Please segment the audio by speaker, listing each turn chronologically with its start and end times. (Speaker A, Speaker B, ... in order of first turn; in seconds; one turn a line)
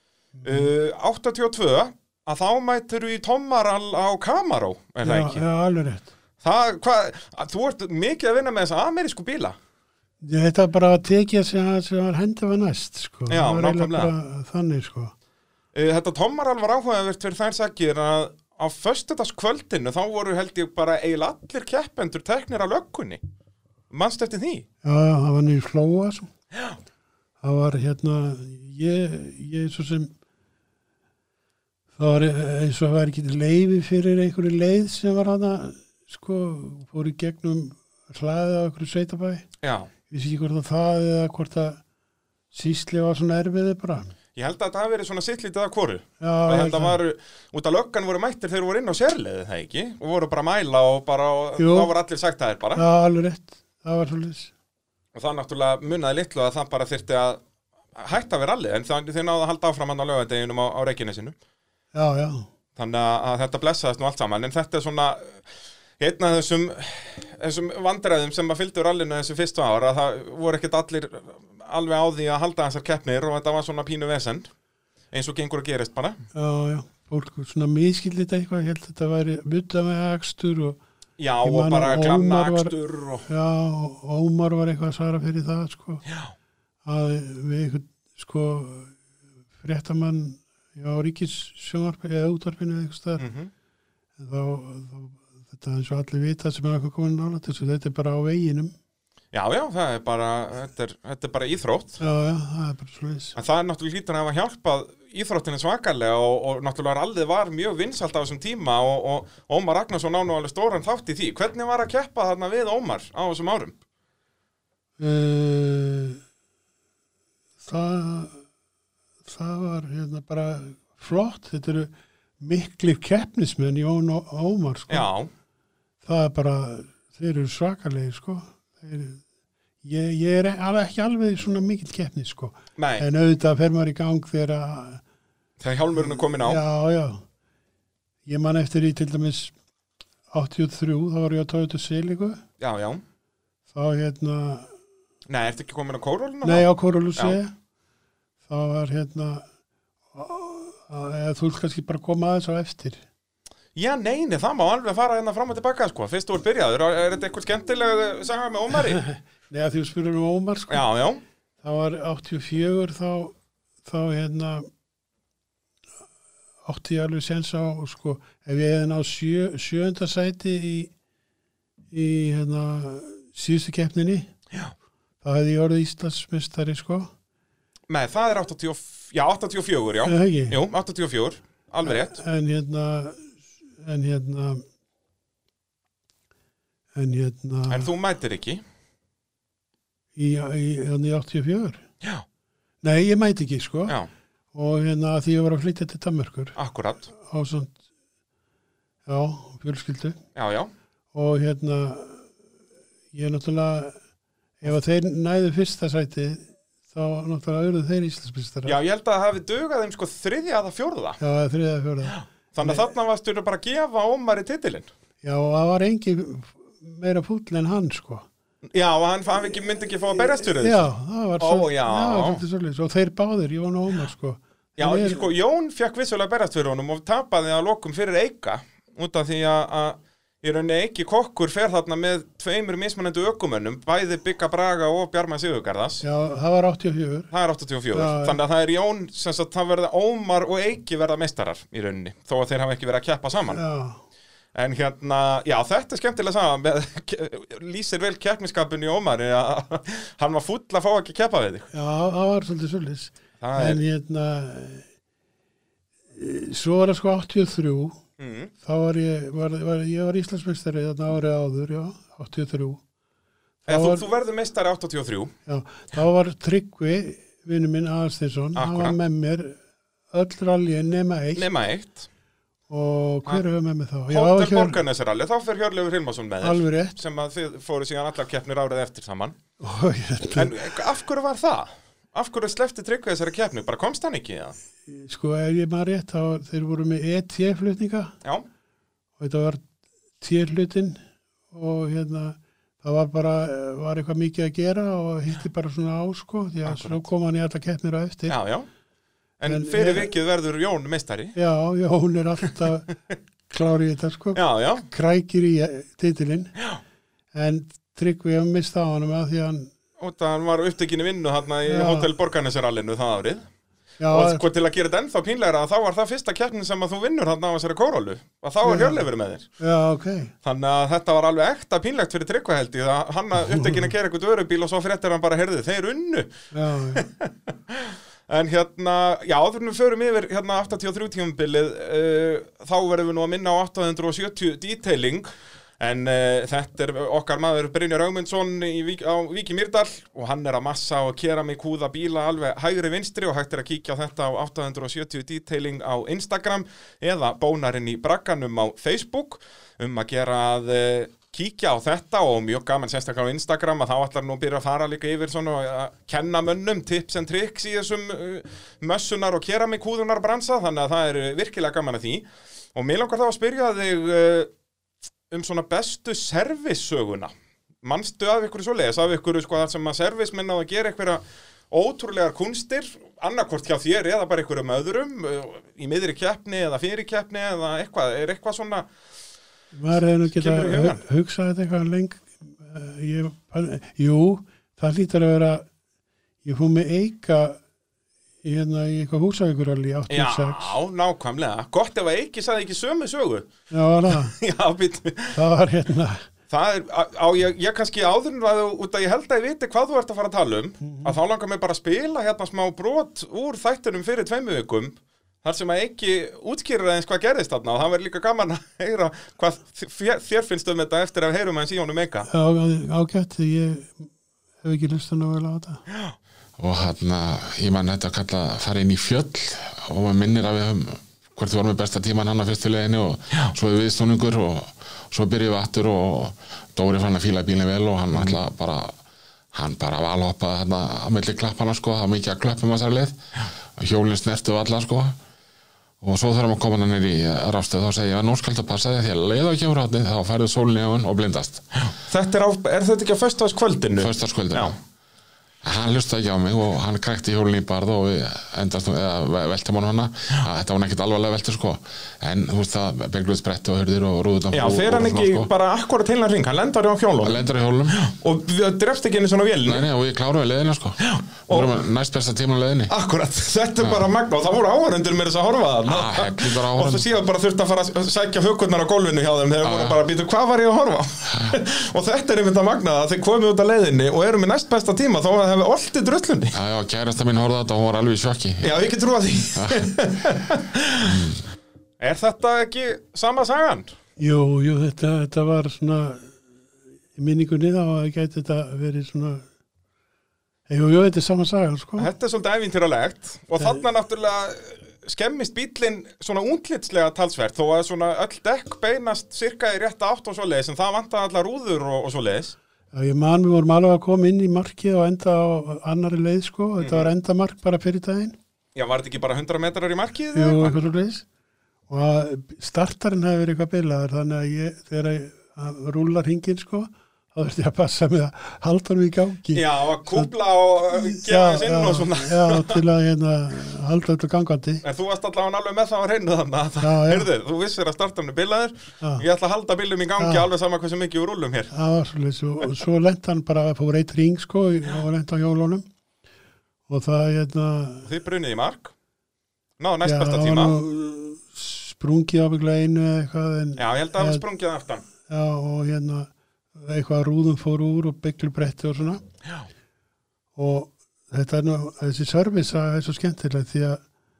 Speaker A: 0.4-0.7
Speaker B: 0.4-5.4
Speaker A: 5.0-6.1
Speaker B: 6.4-9.6
Speaker A: 10.2-15.1
Speaker B: 13.3-14.1
Speaker B: 15.7-23.2
Speaker B: 23.9-24.6
Speaker A: 24.8-26.3
Speaker A: 27.4-30.1
Speaker A: 31.9-39.4
Speaker B: 39.6-39.9
Speaker A: 40.1-41.8
Speaker A: 42.5-44.1
Speaker B: 44.4-52.8
Speaker A: 46.2-47.0
Speaker A: 51.6-51.9
Speaker A: 52.7-54.5
Speaker B: 55.1-57.4
Speaker B: 57.9-61.3
Speaker A: 61.9-62.5
Speaker B: 62.8-65.4
Speaker B: 66.0-74.5
Speaker B: 75.1-76.2
Speaker A: 76.3-80.8
Speaker B: 81.2-83.3
Speaker A: 81.4-86.0
Speaker B: 86.1-86.3
Speaker A: 86.8-89.0
Speaker A: 89.6-93.2
Speaker B: 93.2-93.5
Speaker A: 94.2-98.7
Speaker B: 99.3-102.0
Speaker A: 102.0-103.3
Speaker B: 103.3-113.8
Speaker A: 115.0-116.2
Speaker A: 117.6-118.4
Speaker A: 119.2-125.1
Speaker B: 124.9-125.3
Speaker A: 126.0-129.2
Speaker A: 129.8-135.0
Speaker B: 132.8-133.1
Speaker B: 135.6-136.6
Speaker A: 136.0-137.2
Speaker A: 138.2-139.5
Speaker A: 140.3-142.4
Speaker B: 142.6-143.0
Speaker A: 143.7-144.7
Speaker B: 145.3-147.4
Speaker A: 146.4-147.5
Speaker A: 148.5-149.4
Speaker A: 150.1-153.0
Speaker B: 153.7-159.0
Speaker A: 158.8-160.8
Speaker B: 160.7-161.2
Speaker A: 161.6-164.7
Speaker A: 166.6-170.9
Speaker A: 171.9-174.3
Speaker A: 175.2-177.1
Speaker B: 177.9-182.2
Speaker A: 180.0-180.6
Speaker A: 181.8-184.6
Speaker A: 186.9-187.9
Speaker B: 187.7-188.6
Speaker A: 190.2-191.8
Speaker A: 192.8-194.0
Speaker A: 194.5-196.6
Speaker B: 196.6-197.1
Speaker A: 197.1-197.8
Speaker A: 199.1-200.2
Speaker B: 200.3-200.7
Speaker A: 201.1-202.3
Speaker A: 203.1-204.0
Speaker A: 204.6-208.8
Speaker B: 208.7-211.2
Speaker A: 211.2-212.9
Speaker B: 212.0-214.9
Speaker A: 215.2-218.3
Speaker B: 218.7-220.8
Speaker A: 220.4-225.2
Speaker B: 221.4-222.4
Speaker B: 224.8-236.0
Speaker A: 236.0-237.3
Speaker B: 237.3-243.6
Speaker A: 237.9-238.4
Speaker A: 243.5-244.0
Speaker B: 244.5-251.7
Speaker A: 251.7-254.9
Speaker B: 253.4-253.8
Speaker A: 256.1-258.0
Speaker B: 258.2-258.5
Speaker A: 258.6-262.8
Speaker A: 263.6-264.0
Speaker B: 263.7-265.3
Speaker A: 265.4-269.6
Speaker B: 268.5-269.0
Speaker A: 270.1-271.5
Speaker B: 271.3-272.1
Speaker A: 272.7-274.8
Speaker B: 274.1-279.4
Speaker A: 276.4-277.0
Speaker A: 279.6-280.8
Speaker B: 280.4-284.5
Speaker A: 284.9-288.1
Speaker A: 289.2-289.6
Speaker A: 290.2-298.4
Speaker B: 296.6-297.1
Speaker B: 298.3-298.7
Speaker B: 299.4-301.3
Speaker A: 299.4-300.1
Speaker A: 301.3-302.9
Speaker A: 303.5-306.5
Speaker B: 304.3-304.9
Speaker A: 307.3-309.7
Speaker B: 310.0-313.5
Speaker A: 311.6-312.1
Speaker A: 314.0-314.4
Speaker B: 314.1-319.5
Speaker A: 318.6-319.0
Speaker A: 319.6-320.3
Speaker B: 320.4-326.3
Speaker A: 323.4-323.9
Speaker A: 326.5-327.1
Speaker B: 326.9-335.3
Speaker B: 335.8-364.5
Speaker B: 365.3-378.9
Speaker A: 379.7-385.7
Speaker B: 380.2-381.0
Speaker A: 386.4-387.6
Speaker A: 388.4-390.8
Speaker B: 390.1-393.5
Speaker A: 393.7-394.4
Speaker B: 394.1-395.4
Speaker A: 395.3-396.2
Speaker B: 396.5-412.3
Speaker A: 400.8-401.1
Speaker A: 412.2-414.1
Speaker A: 414.6-415.8
Speaker B: 415.9-416.1
Speaker C: 416.6-429.0
Speaker C: 429.5-435.1
Speaker C: 436.0-441.7
Speaker B: 441.8-444.8
Speaker C: 444.0-444.8
Speaker C: 445.6-455.5
Speaker B: 454.5-459.8
Speaker C: 457.2-458.1
Speaker C: 459.6-462.9
Speaker B: 461.0-461.7
Speaker B: 462.9-476.5
Speaker C: 465.9-467.1
Speaker C: 469.6-470.0
Speaker C: 476.5-478.8
Speaker B: 478.6-481.3
Speaker C: 479.5-479.9
Speaker C: 481.0-481.4
Speaker B: 482.0-483.9
Speaker A: 484.2-486.4
Speaker A: 487.1-489.4
Speaker A: 490.7-492.1
Speaker B: 492.0-502.6
Speaker A: 502.9-508.4
Speaker B: 506.8-507.1
Speaker B: 508.7-510.8
Speaker A: 510.3-511.2
Speaker A: 511.9-520.3
Speaker B: 519.5-522.8
Speaker A: 520.9-524.8
Speaker B: 524.8-531.7
Speaker A: 526.8-527.3
Speaker A: 530.2-530.5
Speaker A: 531.7-535.9
Speaker A: 536.9-538.1
Speaker B: 538.0-538.9
Speaker B: 539.8-540.8
Speaker A: 540.0-544.4
Speaker B: 543.8-545.0
Speaker A: 545.2-549.2
Speaker A: 550.5-554.0